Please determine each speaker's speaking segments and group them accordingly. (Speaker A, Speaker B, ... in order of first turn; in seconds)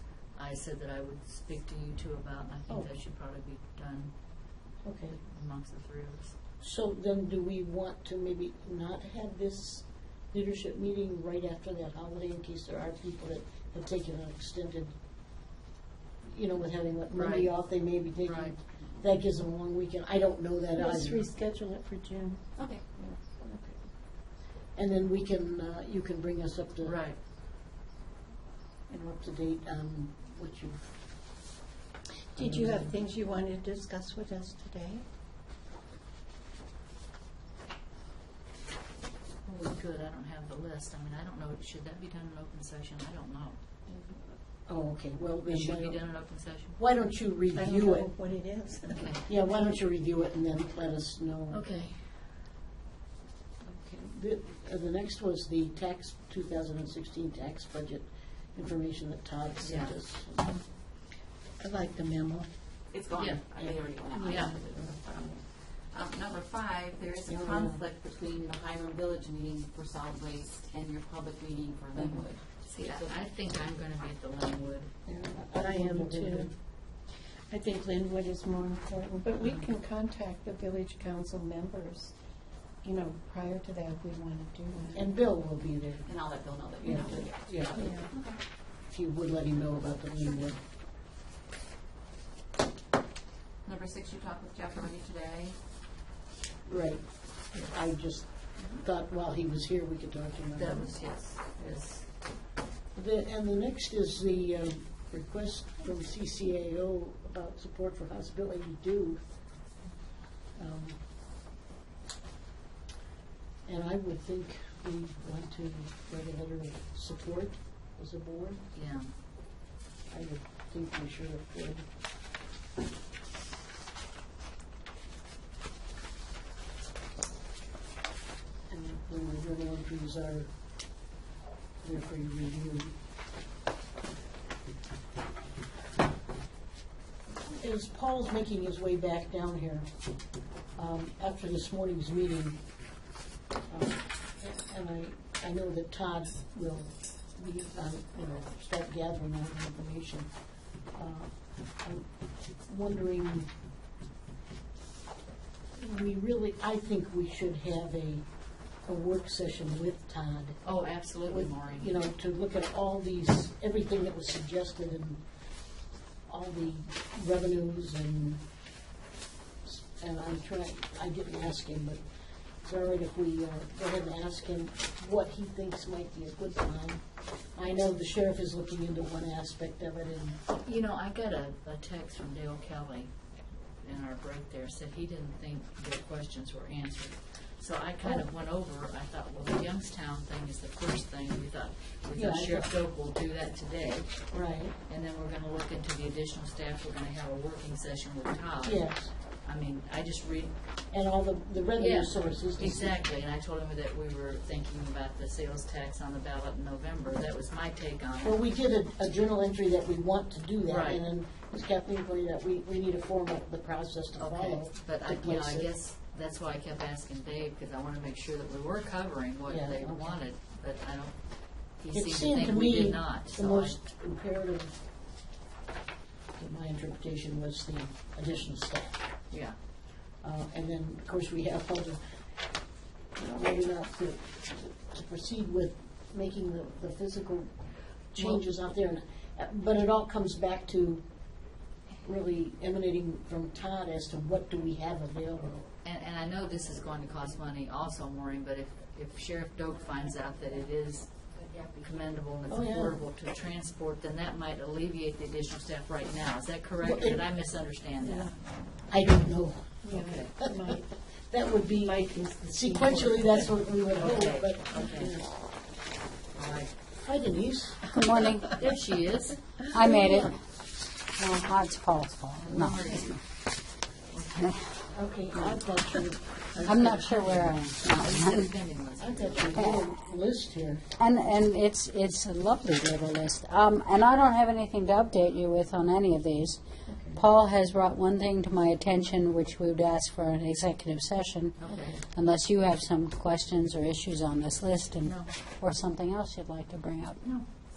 Speaker A: 0.3-4.1, 5.2-6.3, 17.1-17.5, 18.2-18.5, 26.8-27.2, 39.4-43.6, 45.5-46.8, 48.9-49.2, 51.5-52.1, 59.6-60.0, 63.1-63.4, 64.2-64.5, 72.7-74.9, 100.5-102.0, 118.7-119.1, 160.6-161.9, 180.6-183.1, 183.8-194.3, 194.9-200.6, 201.8-208.4, 210.7-211.0, 214.2-223.8, 229.3-229.6, 238.2-238.4, 245.8-258.3, 259.9-260.3, 263.3-265.2, 266.3-266.7, 268.5-269.4, 272.4-273.2, 274.1-274.6, 276.6-277.1, 277.8-279.8, 291.6-292.0, 295.0-295.3
Speaker B: 4.8-5.2, 6.6-14.9, 16.2-21.2, 24.7-27.0, 28.9-30.9, 32.4-32.9, 44.6-46.0, 46.8-48.1, 49.2-51.6, 53.6-60.5, 61.6-62.5, 63.6-64.9, 67.2-67.8, 71.9-72.2, 75.0-76.5, 84.9-86.0, 86.8-87.9, 88.9-90.6, 96.7-100.9, 102.9-109.2, 110.5-111.0, 113.7-118.6, 120.1-121.9, 128.7-130.5, 131.8-132.9, 137.4-139.9, 140.8-142.6, 143.7-150.3, 150.9-152.1, 152.7-153.5, 155.7-158.2, 158.8-160.6, 161.2-165.2, 166.3-168.4, 169.6-172.0, 172.6-180.4, 192.2-192.7, 194.3-194.7, 198.6-199.1, 200.9-203.0, 208.2-215.7, 219.5-220.2, 221.9-224.8, 226.3-229.0, 230.2-232.0, 233.2-241.0, 242.0-245.7, 252.5-253.0, 256.8-257.2, 258.9-259.8, 260.3-265.3, 266.9-268.0, 269.8-270.3, 274.9-277.5, 279.0-280.9, 286.9-287.2
Speaker C: 20.7-22.4, 23.0-23.7, 32.3-35.0, 47.5-49.1, 75.6-76.5, 77.5-82.1, 82.8-85.1, 86.9-88.1, 258.0-258.4, 259.8-260.9, 261.7-263.5
Speaker D: 22.6-22.8, 62.9-73.1, 86.0-88.4, 93.6-95.6
Speaker E: 267.9-268.6, 269.7-270.4, 271.1-273.2, 276.6-278.5, 279.5-279.9, 281.0-286.6, 287.1-297.2